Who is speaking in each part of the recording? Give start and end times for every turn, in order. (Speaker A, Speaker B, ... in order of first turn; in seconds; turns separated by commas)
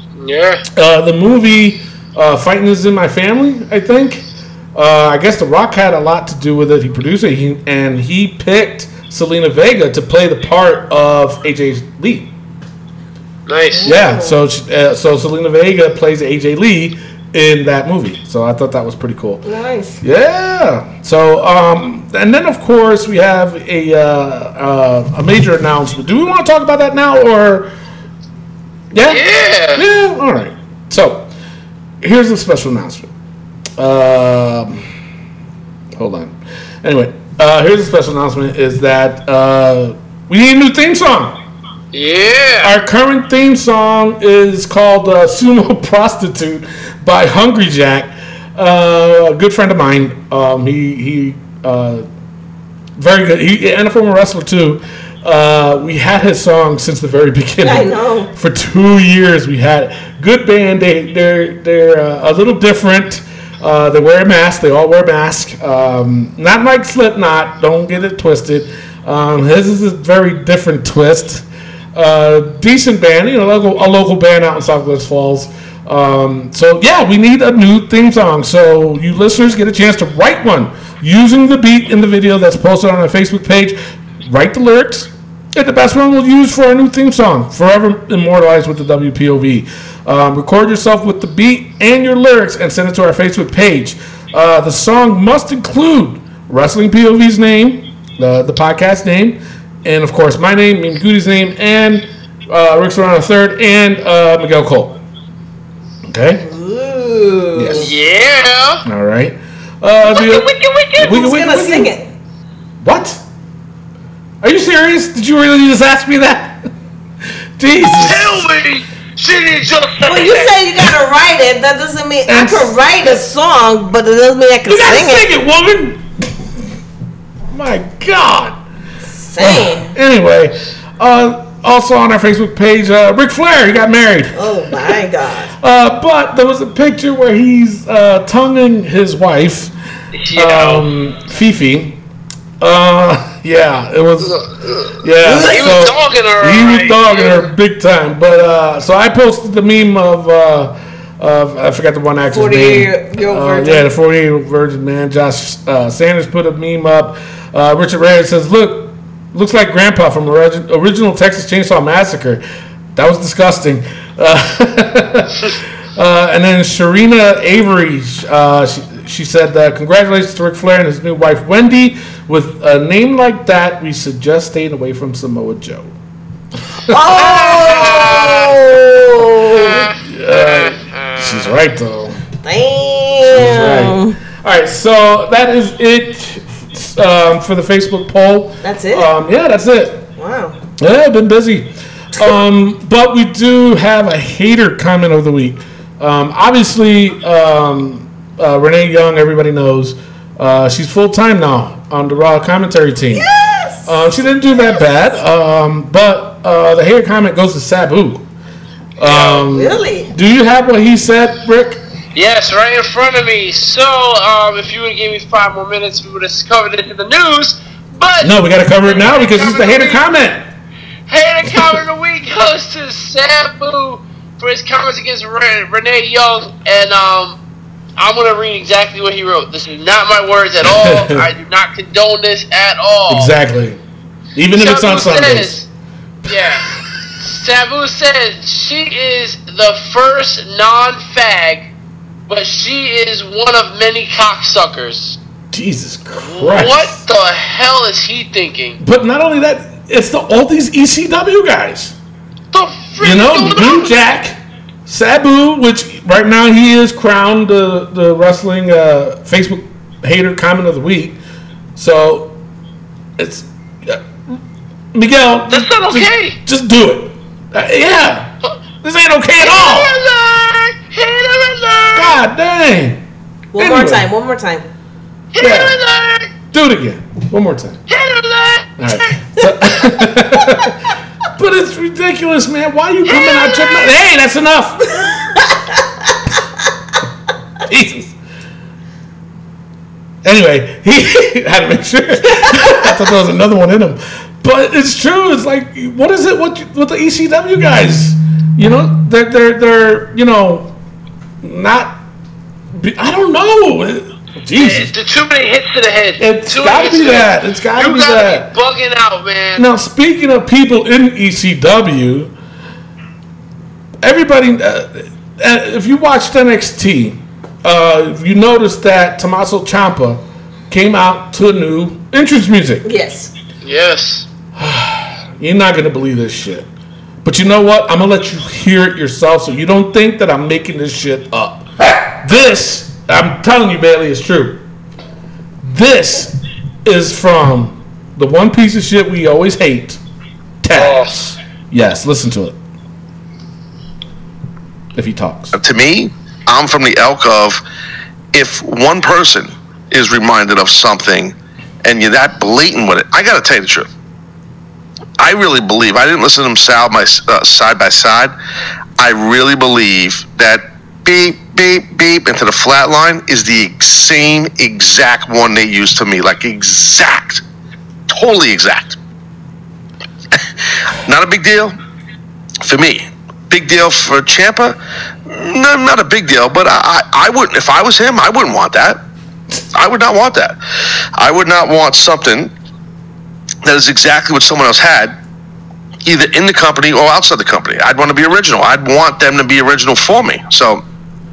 Speaker A: 0.2-0.6, Speaker B: 0.7-12.3, Speaker A: 13.5-13.9, Speaker C: 13.7-14.4, Speaker B: 13.8-19.4, Speaker C: 19.4-20.0, Speaker B: 20.0-27.7, Speaker B: 28.9-31.3, Speaker A: 29.1-29.8, Speaker B: 32.0-33.1, Speaker B: 33.8-34.8, Speaker B: 36.0-41.4, Speaker A: 41.9-42.7, Speaker B: 42.6-52.0, Speaker B: 53.0-105.0, Speaker C: 57.6-58.3, Speaker B: 106.0-106.4, Speaker C: 106.4-107.9, Speaker B: 107.5-107.9, Speaker A: 107.8-108.8, Speaker B: 108.8-111.9, Speaker A: 110.1-111.0, Speaker C: 111.0-112.1, Speaker B: 112.8-113.2, Speaker B: 114.4-116.6, Speaker B: 117.6-118.5, Speaker A: 117.8-120.6, Speaker C: 120.0-125.3, Speaker B: 122.3-122.8, Speaker B: 124.7-126.0, Speaker B: 127.5-128.6, Speaker C: 129.1-129.9, Speaker B: 129.4-134.5, Speaker C: 134.3-135.5, Speaker B: 135.6-139.7, Speaker A: 140.2-140.9, Speaker B: 140.3-142.0, Speaker B: 142.6-144.4, Speaker A: 144.2-147.5, Speaker B: 145.0-162.4, Speaker C: 152.3-153.9, Speaker B: 162.9-175.9, Speaker C: 176.9-179.9, Speaker A: 177.2-178.6, Speaker A: 179.5-181.6, Speaker B: 180.0-182.2, Speaker C: 182.4-184.2, Speaker B: 183.3-190.1, Speaker C: 188.6-189.1, Speaker C: 190.2-190.6, Speaker B: 190.8-203.3, Speaker C: 203.1-204.0, Speaker B: 203.8-208.2, Speaker C: 204.5-204.8, Speaker B: 209.0-211.8, Speaker A: 209.0-209.4, Speaker C: 209.5-210.1, Speaker A: 212.1-220.0, Speaker B: 218.2-220.4, Speaker A: 221.1-227.4, Speaker A: 228.0-233.3, Speaker B: 230.6-231.2, Speaker B: 233.1-233.8, Speaker B: 234.3-235.6, Speaker A: 234.5-235.7, Speaker A: 236.2-241.7, Speaker A: 242.3-245.2, Speaker B: 245.5-247.0, Speaker A: 246.2-248.8, Speaker B: 248.8-251.9, Speaker A: 252.5-253.9, Speaker B: 253.0-261.2, Speaker B: 261.8-262.4, Speaker B: 263.2-264.4, Speaker B: 264.9-269.9, Speaker A: 265.5-266.4, Speaker A: 269.4-272.2, Speaker B: 271.9-273.0, Speaker C: 273.5-274.6, Speaker B: 273.6-274.1, Speaker A: 275.3-276.3, Speaker B: 275.4-275.8, Speaker B: 276.5-277.8, Speaker A: 277.9-279.2, Speaker B: 278.8-280.8, Speaker B: 281.4-285.4, Speaker A: 283.1-283.8, Speaker B: 287.6-288.1, Speaker B: 290.2-300.7, Speaker B: 301.4-302.0, Speaker B: 302.7-304.9, Speaker A: 304.6-309.6, Speaker B: 306.2-308.5, Speaker B: 309.6-312.3, Speaker B: 314.0-322.9, Speaker C: 322.8-323.3, Speaker A: 323.6-324.3, Speaker B: 324.6-326.7, Speaker B: 327.2-334.6, Speaker B: 335.6-340.0, Speaker B: 340.6-342.6, Speaker A: 340.7-341.1, Speaker B: 344.9-345.5, Speaker D: 345.5-347.6, Speaker D: 348.3-353.9, Speaker D: 355.2-358.3, Speaker D: 359.0-367.4, Speaker D: 368.1-369.0, Speaker D: 371.0-371.8, Speaker D: 372.6-379.0, Speaker D: 379.7-380.6, Speaker D: 381.1-382.5, Speaker D: 383.6-385.2, Speaker D: 386.0-390.8